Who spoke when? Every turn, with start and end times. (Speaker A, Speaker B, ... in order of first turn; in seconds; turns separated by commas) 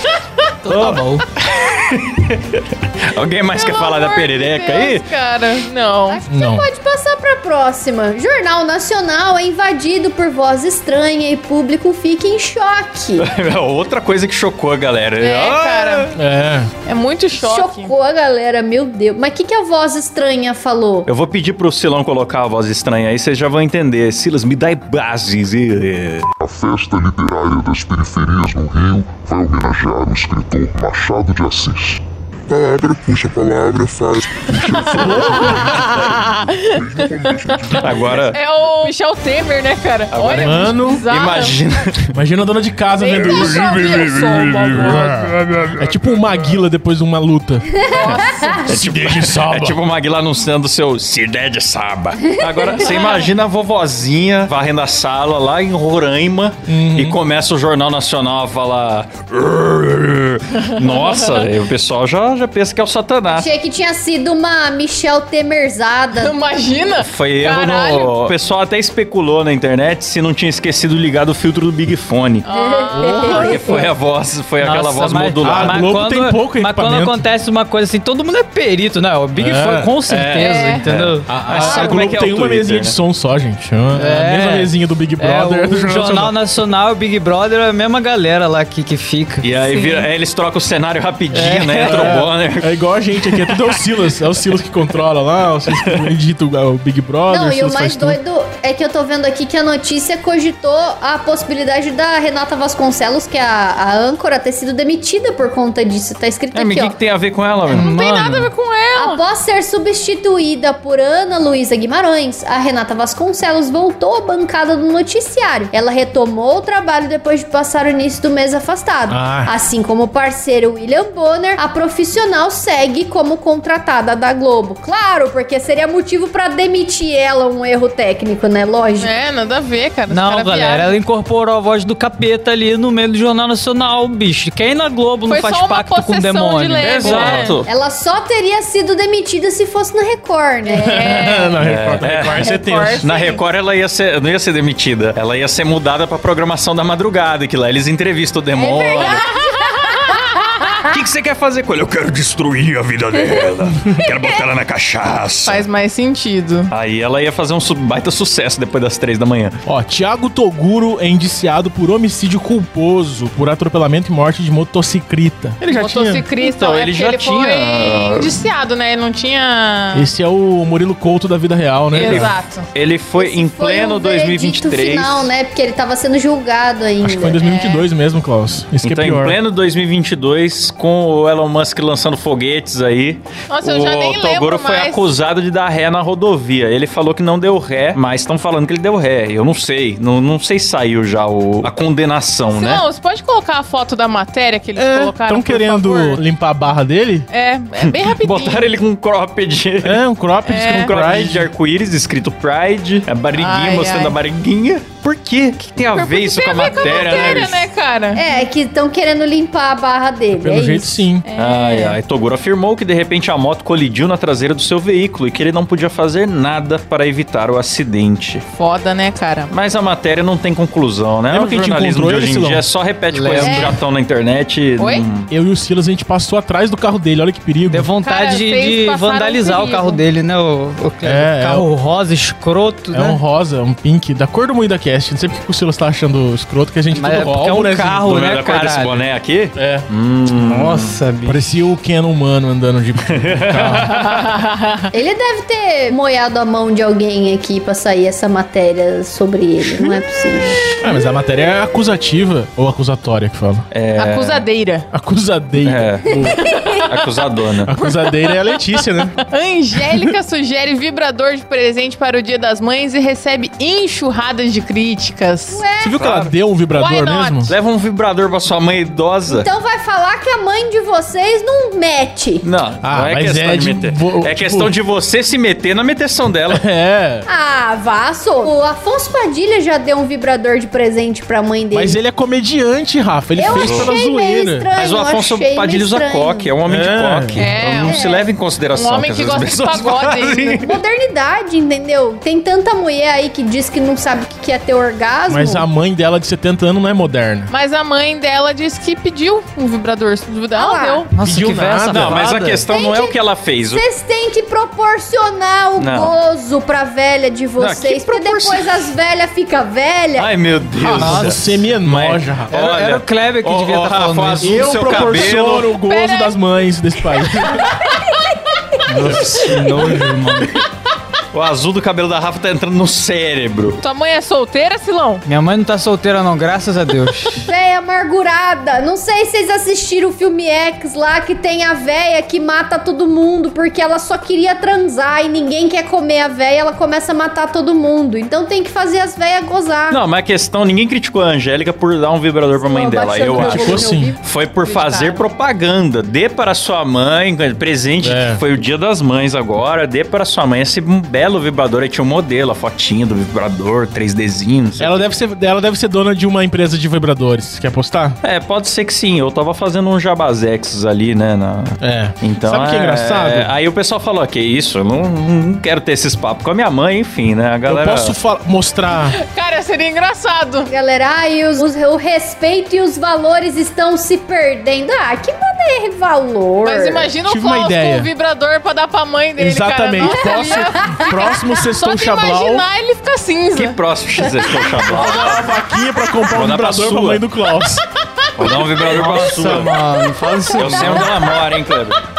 Speaker A: 0.7-1.2, Speaker B: 0.7-5.1, Speaker C: 3.5-6.2, Speaker D: 6.1-13.3, Speaker E: 6.3-6.7, Speaker B: 13.2-16.1, Speaker C: 15.2-16.1, Speaker E: 16.1-16.7, Speaker C: 16.8-17.9, Speaker D: 17.4-21.1, Speaker B: 21.1-26.3, Speaker F: 26.4-38.2, Speaker E: 34.9-35.8, Speaker C: 34.9-41.7, Speaker B: 37.8-38.4, Speaker B: 40.1-42.1, Speaker E: 40.4-41.0, Speaker E: 42.1-43.6, Speaker C: 43.0-45.3, Speaker B: 43.2-45.7, Speaker E: 44.7-49.8, Speaker D: 47.8-48.5, Speaker C: 48.0-48.6, Speaker B: 48.7-63.5, Speaker D: 52.4-52.9, Speaker C: 52.8-53.3, Speaker E: 56.7-57.2, Speaker D: 63.3-66.3, Speaker C: 66.2-68.3, Speaker B: 67.0-72.5, Speaker C: 72.5-73.2, Speaker D: 72.5-73.9, Speaker A: 73.0-73.8, Speaker B: 73.1-75.9, Speaker A: 74.6-81.8, Speaker E: 75.4-77.2, Speaker E: 79.3-80.0, Speaker B: 80.1-83.0, Speaker C: 80.4-80.9, Speaker E: 81.3-86.4, Speaker C: 81.6-81.9, Speaker A: 83.9-89.5, Speaker B: 89.4-92.7, Speaker C: 89.6-90.1, Speaker E: 91.3-98.2, Speaker C: 91.4-91.7, Speaker D: 97.3-107.0, Speaker B: 106.5-107.9, Speaker A: 107.7-108.5, Speaker C: 107.8-109.2, Speaker D: 109.0-129.1, Speaker E: 119.1-119.5, Speaker C: 129.0-131.0, Speaker A: 130.1-137.5, Speaker C: 135.3-137.6, Speaker B: 136.8-137.7, Speaker D: 137.6-141.1, Speaker C: 140.7-141.6, Speaker E: 140.8-143.0, Speaker B: 141.6-149.3, Speaker C: 142.2-143.4, Speaker D: 148.6-150.3, Speaker C: 148.8-150.6, Speaker B: 150.8-155.6, Speaker C: 155.4-156.7, Speaker B: 156.7-159.6, Speaker E: 159.7-166.2, Speaker C: 165.6-170.1, Speaker B: 166.4-168.4, Speaker E: 169.9-172.3, Speaker C: 171.9-172.7, Speaker B: 172.0-175.3, Speaker D: 173.2-177.4, Speaker E: 177.0-179.4, Speaker C: 177.4-177.9, Speaker B: 178.8-192.8, Speaker C: 183.5-185.1, Speaker C: 192.5-196.2, Speaker E: 194.8-197.3, Speaker C: 197.3-198.8, Speaker B: 197.8-207.7, Speaker E: 199.8-201.5, Speaker C: 200.5-200.9, Speaker C: 203.3-204.2, Speaker C: 205.9-208.4, Speaker D: 208.2-211.0, Speaker E: 210.3-211.3, Speaker C: 211.2-212.0, Speaker B: 211.3-218.4, Speaker C: 218.5-219.5, Speaker B: 219.5-225.3, Speaker E: 221.3-222.7, Speaker A: 223.1-223.8, Speaker C: 223.4-223.8, Speaker C: 224.8-225.1, Speaker E: 225.3-227.9, Speaker A: 227.7-233.2, Speaker C: 228.0-230.0, Speaker E: 231.0-231.7, Speaker E: 232.9-238.1, Speaker A: 236.9-239.1, Speaker B: 238.0-241.0, Speaker E: 239.6-239.8, Speaker A: 240.3-241.4, Speaker E: 241.3-244.0, Speaker B: 243.3-244.2, Speaker C: 244.0-244.8, Speaker D: 244.9-250.6, Speaker E: 250.8-253.7, Speaker B: 253.7-254.4, Speaker C: 253.9-254.9, Speaker E: 254.9-256.4, Speaker B: 255.6-256.1, Speaker D: 256.1-256.9, Speaker B: 256.9-257.7, Speaker E: 257.7-259.1, Speaker C: 257.7-265.7, Speaker D: 265.5-266.0, Speaker E: 265.8-267.5, Speaker B: 266.0-266.3, Speaker C: 266.7-267.5, Speaker B: 267.5-269.5, Speaker D: 269.3-272.4, Speaker B: 272.4-276.6, Speaker E: 272.8-274.7, Speaker E: 276.5-277.3, Speaker D: 277.3-282.0, Speaker E: 281.7-284.7, Speaker D: 283.4-286.5, Speaker B: 283.5-283.9, Speaker B: 284.8-290.8, Speaker E: 286.6-287.8, Speaker C: 287.4-288.0, Speaker D: 287.8-288.3, Speaker C: 288.7-290.7, Speaker D: 290.6-295.7, Speaker E: 295.3-297.5, Speaker C: 297.5-301.1, Speaker D: 300.6-301.0, Speaker A: 301.1-302.6, Speaker E: 301.2-302.6, Speaker B: 302.0-303.9, Speaker D: 302.7-310.3, Speaker B: 305.8-306.1, Speaker B: 307.6-308.9, Speaker B: 310.2-315.7, Speaker E: 310.8-312.5, Speaker A: 310.9-311.4, Speaker A: 312.5-314.6, Speaker E: 314.4-317.7, Speaker C: 315.7-316.4, Speaker C: 317.2-317.5, Speaker D: 317.8-318.6, Speaker A: 318.9-320.5, Speaker B: 319.2-320.0, Speaker B: 321.3-323.8, Speaker C: 323.8-325.2, Speaker A: 325.2-327.4, Speaker D: 327.4-340.0, Speaker B: 339.9-355.1, Speaker D: 342.5-344.2, Speaker E: 343.4-344.2, Speaker C: 344.6-345.2, Speaker E: 348.0-348.4, Speaker E: 354.8-358.2, Speaker B: 358.2-368.2, Speaker E: 361.8-363.5, Speaker E: 367.7-369.2, Speaker C: 369.1-370.7, Speaker D: 370.7-377.1, Speaker C: 376.6-383.8, Speaker E: 377.3-378.1, Speaker E: 379.4-382.7, Speaker D: 380.0-381.3, Speaker B: 383.6-385.5, Speaker D: 384.2-385.1, Speaker E: 384.9-387.8, Speaker B: 386.3-387.3, Speaker B: 388.4-389.8, Speaker C: 388.4-389.2, Speaker A: 388.9-391.1, Speaker B: 390.6-392.0